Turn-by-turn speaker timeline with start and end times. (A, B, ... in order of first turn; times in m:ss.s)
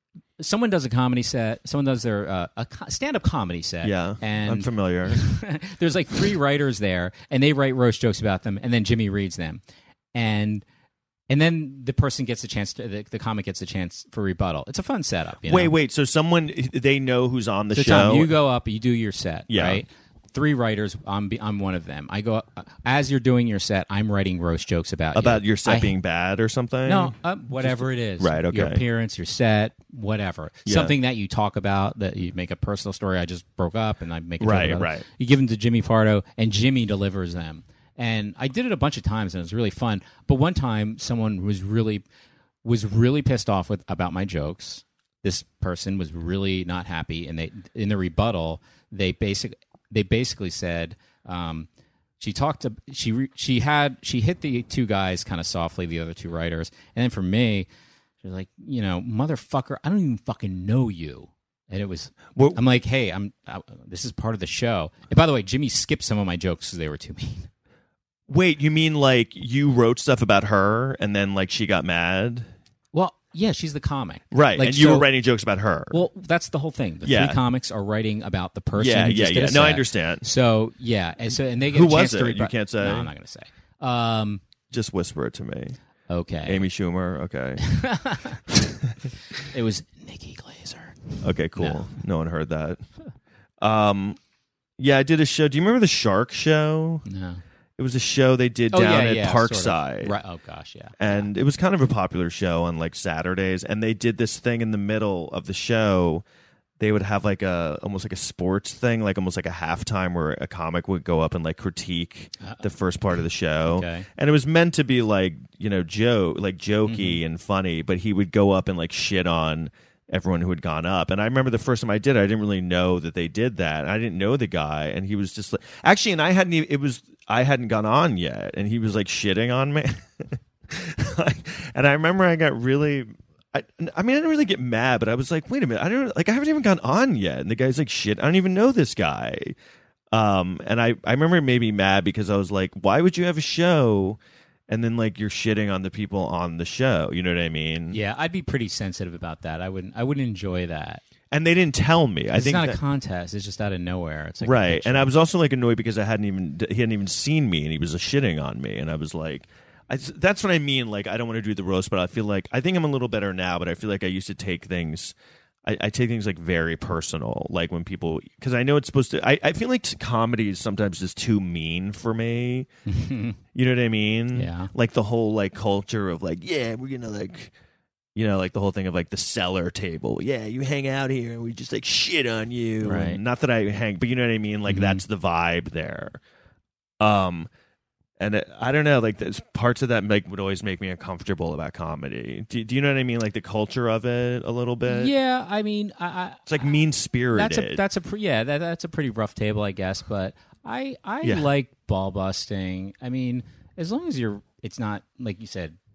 0:00.4-0:09.6 A
0:03.8-0:05.2 B
0:10.1-0:10.6 A
0:11.3-0:15.7 A
0:15.4-0:18.3 B
0:17.7-0:25.9 A
0:19.5-0:19.8 B
0:25.1-0:28.8 B
0:26.8-0:42.0 A
0:30.6-0:30.9 B
0:34.4-0:35.0 B
0:42.6-0:51.7 A
0:52.2-0:57.7 A
0:58.2-1:07.5 A
1:02.3-1:02.6 B
1:08.3-1:12.5 B
1:12.9-1:15.1 A
1:14.3-1:16.0 B
1:15.9-1:24.4 A
1:17.0-1:17.4 B
1:18.7-1:20.2 B
1:21.7-1:23.1 B
1:24.7-1:25.8 B
1:26.1-1:26.6 A
1:26.4-1:27.6 B
1:27.6-1:28.4 A
1:28.5-1:29.0 B
1:29.4-1:32.0 A
1:31.2-1:32.8 B
1:33.6-1:34.2 B
1:34.8-1:37.0 B
1:37.0-1:37.4 A
1:37.8-1:40.1 B
1:38.7-1:41.3 A
1:41.0-1:46.2 B
1:46.8-2:19.6 B
1:52.4-1:52.7 A
1:53.6-1:54.1 A
1:56.8-1:57.2 A
2:20.1-2:28.0 B
2:27.9-2:31.0 A
2:31.3-2:32.8 B
2:32.3-2:35.1 A
2:34.4-2:52.7 B
2:52.9-2:53.4 A
2:53.5-2:57.5 B
2:54.3-2:54.7 A
2:58.1-3:06.2 B
3:02.8-3:03.2 A
3:04.7-3:05.0 A
3:07.0-3:07.5 B
3:08.2-3:15.1 B
3:14.9-3:16.5 A
3:16.5-3:17.8 B
3:17.3-3:25.8 A
3:21.2-3:21.5 B